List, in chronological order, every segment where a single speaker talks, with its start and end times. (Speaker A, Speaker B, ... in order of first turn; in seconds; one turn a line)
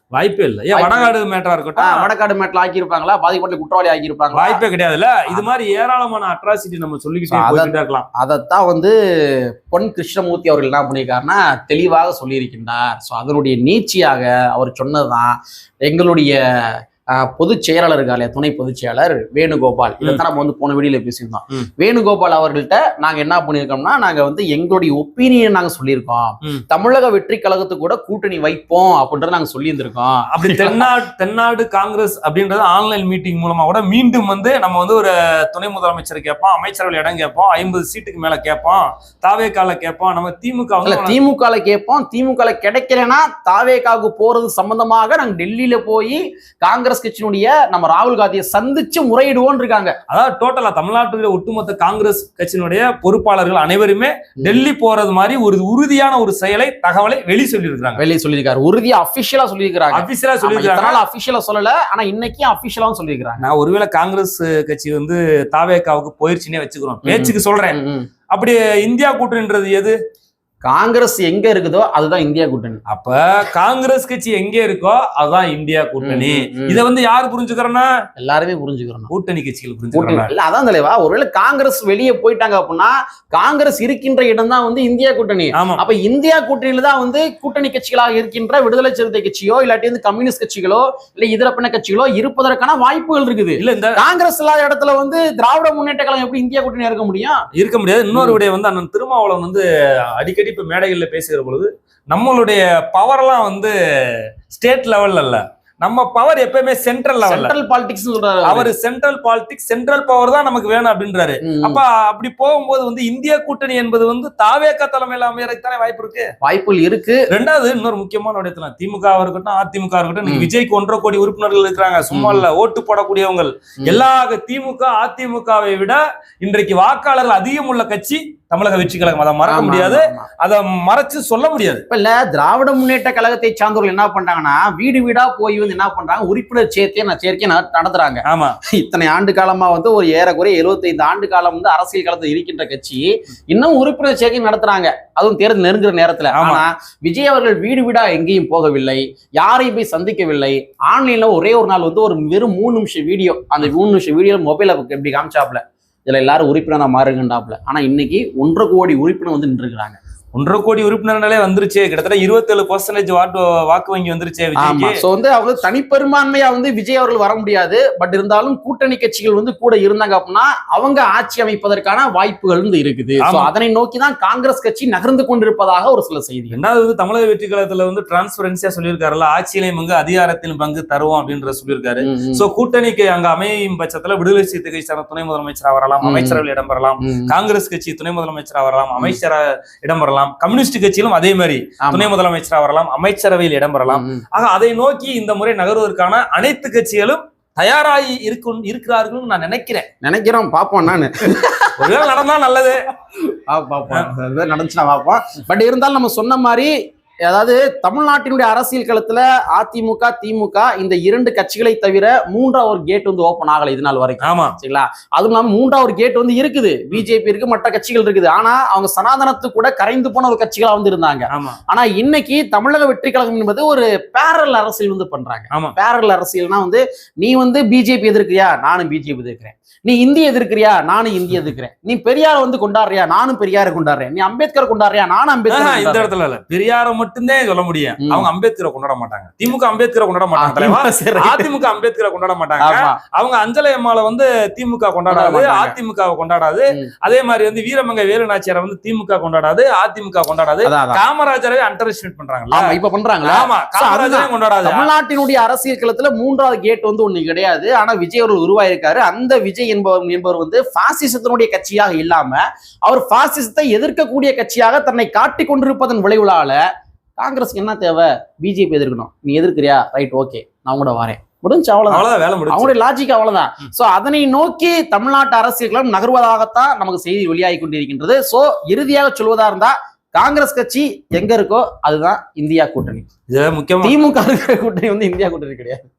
Speaker A: 0.1-2.0
Speaker B: 0.7-1.1
Speaker B: 1.8-4.6
Speaker A: 4.3-8.1
Speaker B: 7.3-30.9
Speaker A: 30.3-41.2
Speaker B: 40.8-50.0
Speaker A: 50.1-58.0
Speaker B: 58.0-63.4
Speaker A: 59.9-61.0
Speaker A: 63.4-67.8
Speaker B: 67.0-68.1
Speaker A: 68.3-69.9
Speaker B: 70.6-72.8
Speaker A: 72.9-77.9
Speaker B: 76.0-76.8
Speaker B: 78.2-79.1
Speaker A: 79.1-80.3
Speaker B: 79.9-97.4
Speaker A: 85.5-85.8
Speaker A: 93.6-94.0
Speaker A: 97.5-99.6
Speaker A: 100.1-103.7
Speaker A: 104.5-107.5
Speaker B: 107.2-108.7
Speaker A: 108.4-116.2
Speaker B: 111.4-111.8
Speaker B: 116.4-117.2
Speaker A: 117.3-131.8
Speaker B: 122.1-122.5
Speaker B: 129.4-130.3
Speaker B: 131.9-160.0
Speaker A: 138.3-138.6
Speaker A: 146.3-146.6
Speaker A: 160.3-165.0
Speaker B: 164.6-176.6
Speaker A: 173.2-173.5
Speaker A: 176.5-199.9
Speaker B: 182.0-182.4
Speaker B: 186.0-186.4
Speaker B: 187.0-187.3
Speaker B: 191.8-192.1
Speaker B: 193.9-194.2
Speaker B: 200.0-202.1
Speaker A: 201.8-202.8
Speaker B: 203.3-206.7
Speaker B: 207.2-236.1
Speaker A: 214.2-214.6
Speaker A: 221.3-221.6
Speaker A: 235.5-252.7
Speaker B: 238.0-238.2
Speaker B: 240.3-241.5
Speaker B: 242.6-243.0
Speaker B: 245.1-245.8
Speaker B: 250.6-251.0
Speaker B: 252.5-266.6
Speaker A: 253.2-254.9
Speaker B: 267.2-283.1
Speaker A: 271.9-272.7
Speaker A: 283.3-284.0
Speaker B: 283.8-285.9